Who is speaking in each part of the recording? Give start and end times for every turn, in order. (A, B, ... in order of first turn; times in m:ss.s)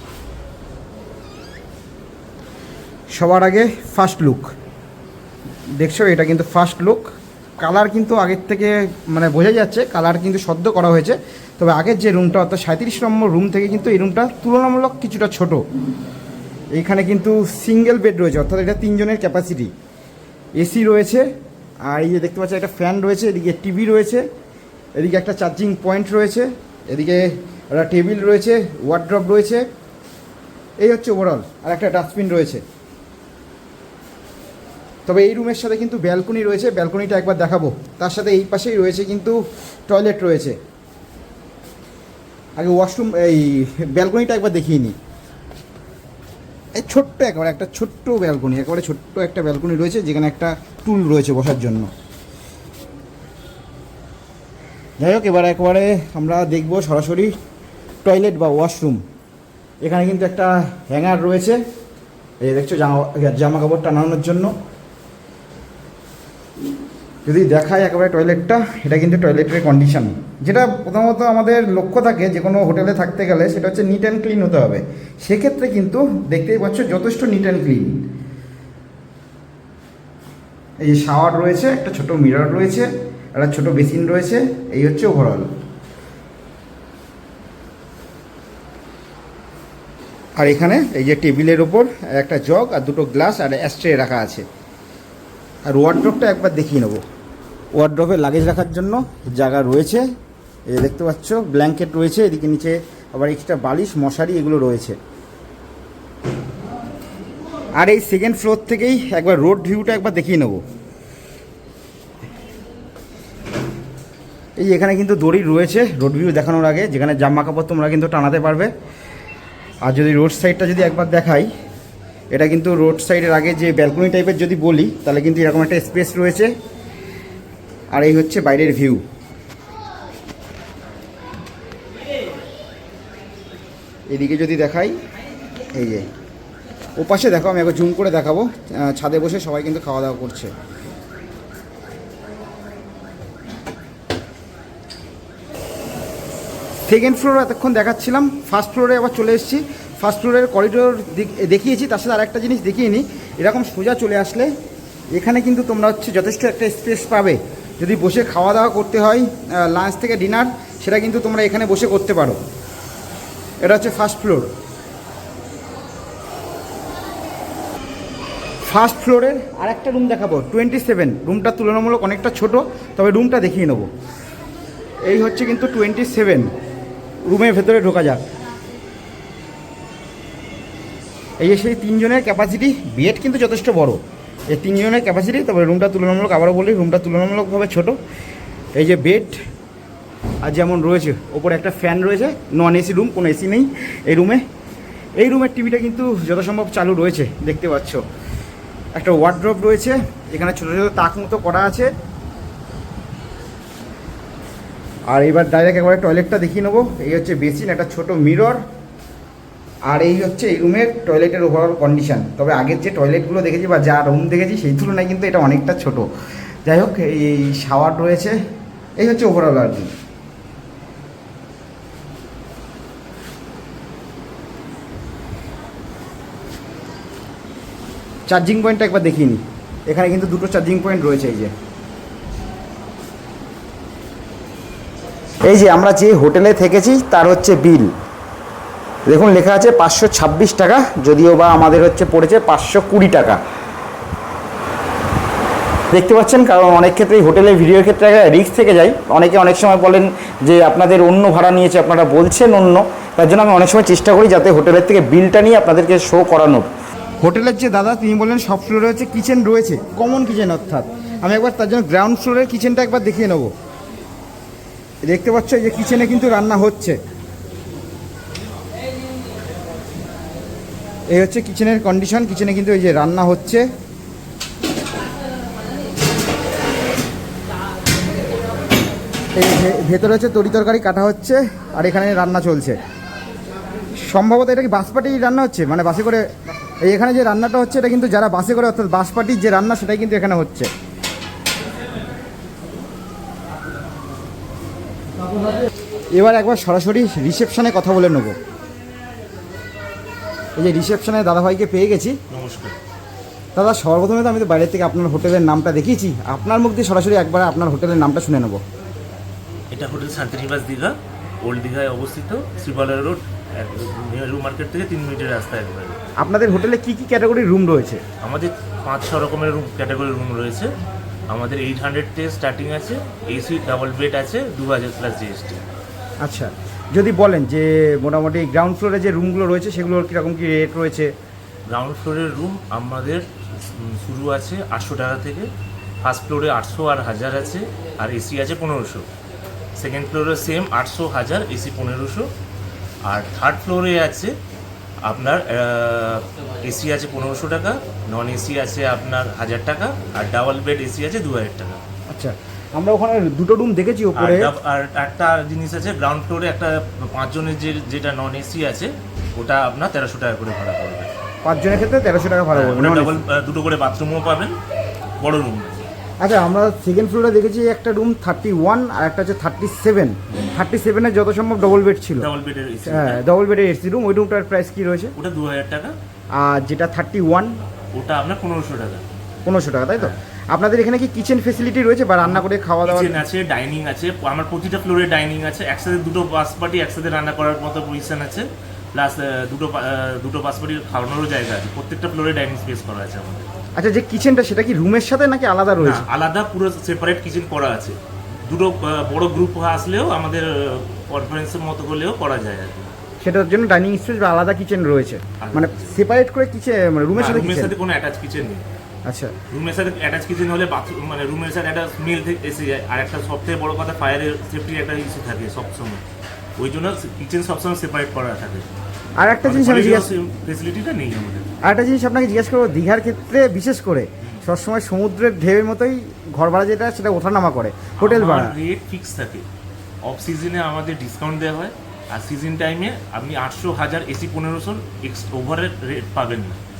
0:03.1-0:04.5 A
0:05.8-0:15.6 A
0:16.7-0:19.7 A
0:20.6-0:21.3 A
0:21.9-0:24.2 A
0:25.0-0:29.7 A
0:30.8-0:32.6 A
0:35.0-0:39.4 A
0:39.9-0:40.6 A
0:42.6-0:45.0 A
0:46.8-0:51.9 A
0:55.0-0:57.3 A
0:58.0-0:59.0 A
0:59.8-1:01.6 A
1:02.4-1:04.5 A
1:07.2-1:18.0 A
1:20.8-1:25.5 A
1:30.4-1:34.4 A
1:35.7-1:37.0 A
1:37.8-1:40.0 A
1:40.7-1:45.0 A
1:47.8-1:50.6 A
1:54.6-1:58.7 A
1:59.8-2:01.5 A
2:02.3-2:06.5 A
2:07.9-2:09.0 A
2:14.1-2:15.0 A
2:15.7-2:16.1 A
2:17.0-2:20.5 A
2:26.9-2:34.5 A
2:35.2-2:42.4 A
2:43.6-2:44.5 A
2:48.6-2:53.9 A
2:55.0-2:56.5 A
2:57.3-2:58.2 A
3:01.4-3:04.0 A
3:04.5-3:08.0 A
3:08.8-3:09.4 A
3:10.4-3:14.4 A
3:15.2-3:18.0 A
3:18.9-3:21.9 A
3:25.1-3:28.6 A
3:29.9-3:36.1 A
3:36.6-3:38.4 A
3:39.0-3:39.9 A
3:48.3-3:51.5 A
3:55.5-3:57.9 A
3:59.1-4:03.4 A
4:05.9-4:16.7 A
4:17.2-4:23.5 A
4:25.1-4:27.0 A
4:31.1-4:33.7 A
4:39.4-4:42.8 A
4:44.0-4:46.2 A
4:46.8-4:50.7 A
4:56.1-4:58.3 A
5:00.6-5:02.2 A
5:02.3-5:02.8 B
5:03.5-5:08.6 A
5:09.7-5:16.0 B
5:16.2-5:18.0 A
5:18.2-5:20.7 B
5:21.3-5:25.6 B
5:26.2-5:31.1 A
5:31.7-5:35.5 B
5:36.0-5:39.0 B
5:39.8-5:42.3 B
5:43.1-5:44.3 B
5:45.0-5:51.8 B
5:52.1-5:54.5 A
5:54.2-6:01.1 B
6:01.4-6:03.2 A
6:02.5-6:04.6 B
6:05.2-6:05.8 B
6:06.2-6:12.3 A
6:12.2-6:13.2 B
6:12.8-6:15.1 A
6:15.2-6:15.9 B
6:16.4-6:17.5 A
6:17.9-6:19.0 B
6:19.4-6:23.2 A
6:22.2-6:33.5 B
6:33.8-6:36.0 A
6:35.8-6:42.9 B
6:43.2-6:47.7 A
6:45.4-6:46.0 B
6:47.2-6:48.6 B
6:49.0-6:49.3 A
6:49.5-6:56.0 B
6:56.6-6:58.7 B
6:59.2-7:00.1 A
6:59.4-7:01.6 B
7:01.6-7:08.5 A
7:08.0-7:09.4 B
7:10.0-7:16.6 B